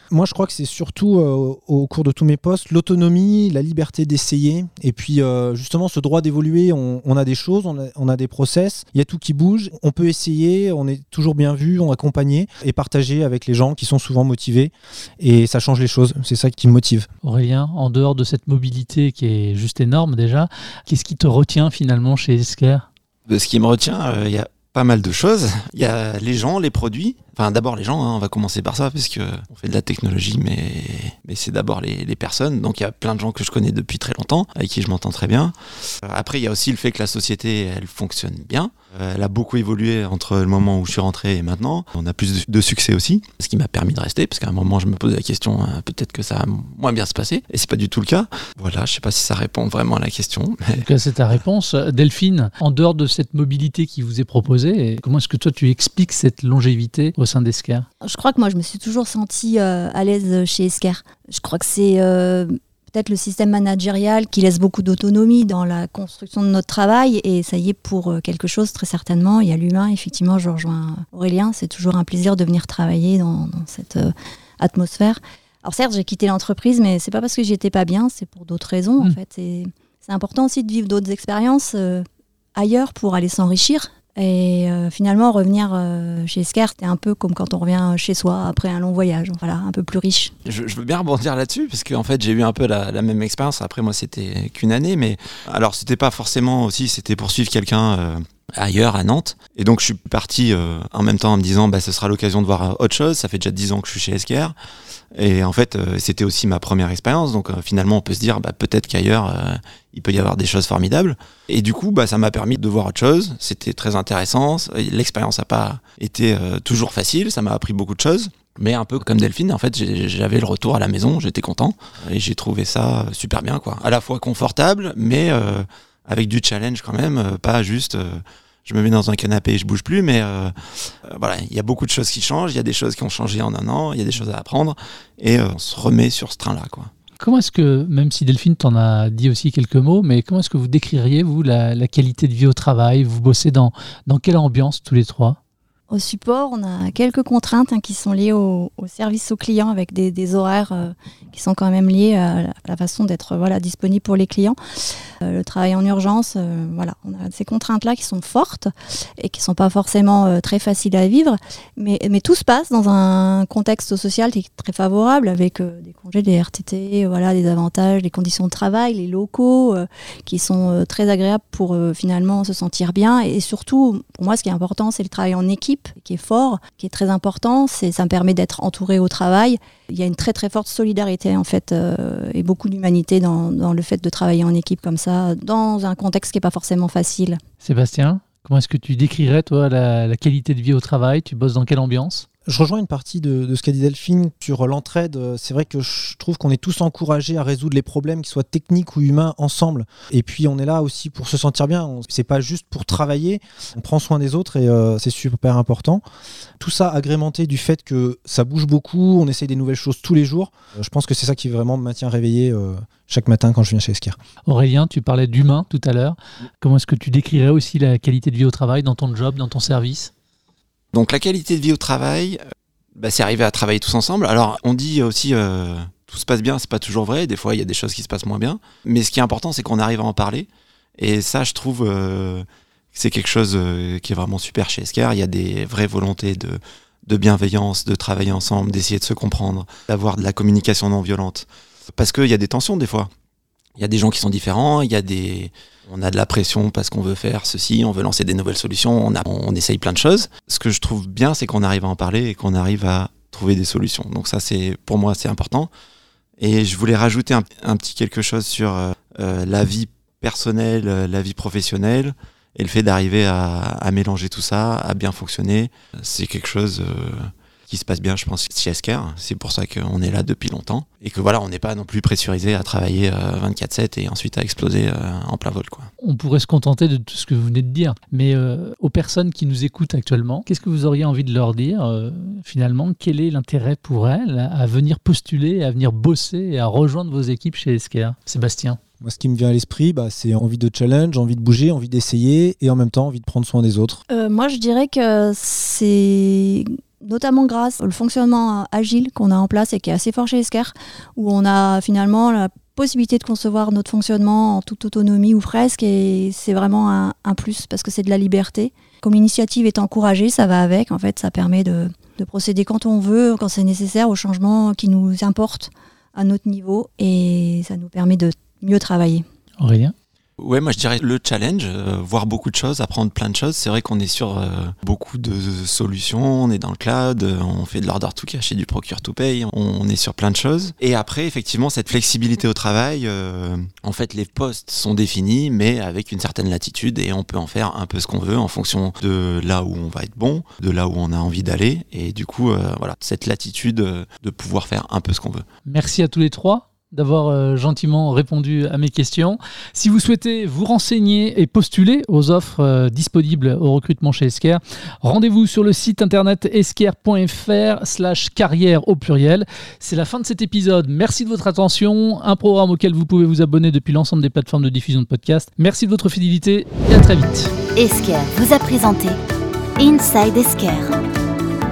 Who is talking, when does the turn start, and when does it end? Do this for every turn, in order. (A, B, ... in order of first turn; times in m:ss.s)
0:00.1-0:17.1 A
0:17.2-0:22.9 B
0:23.3-0:50.8 C
0:50.8-0:57.9 B
0:58.0-1:22.0 D
1:22.6-1:30.3 D
1:30.4-1:44.6 C
1:45.1-2:16.9 C
2:17.2-2:25.4 B
2:25.9-2:34.6 D
2:35.2-3:07.4 D
3:07.6-3:12.3 B
3:12.5-3:26.0 A
3:26.6-3:34.2 A
3:34.4-3:40.1 B
3:40.9-3:42.4 C
3:43.0-4:03.1 C
4:03.8-4:15.7 C
4:16.4-4:35.9 C
4:36.0-4:48.8 B
4:49.0-4:54.0 A
4:54.1-5:19.2 D
5:19.6-5:19.9 B
5:20.4-5:45.5 C
5:45.7-6:07.5 B
6:07.8-6:09.2 E
6:09.8-6:10.9 E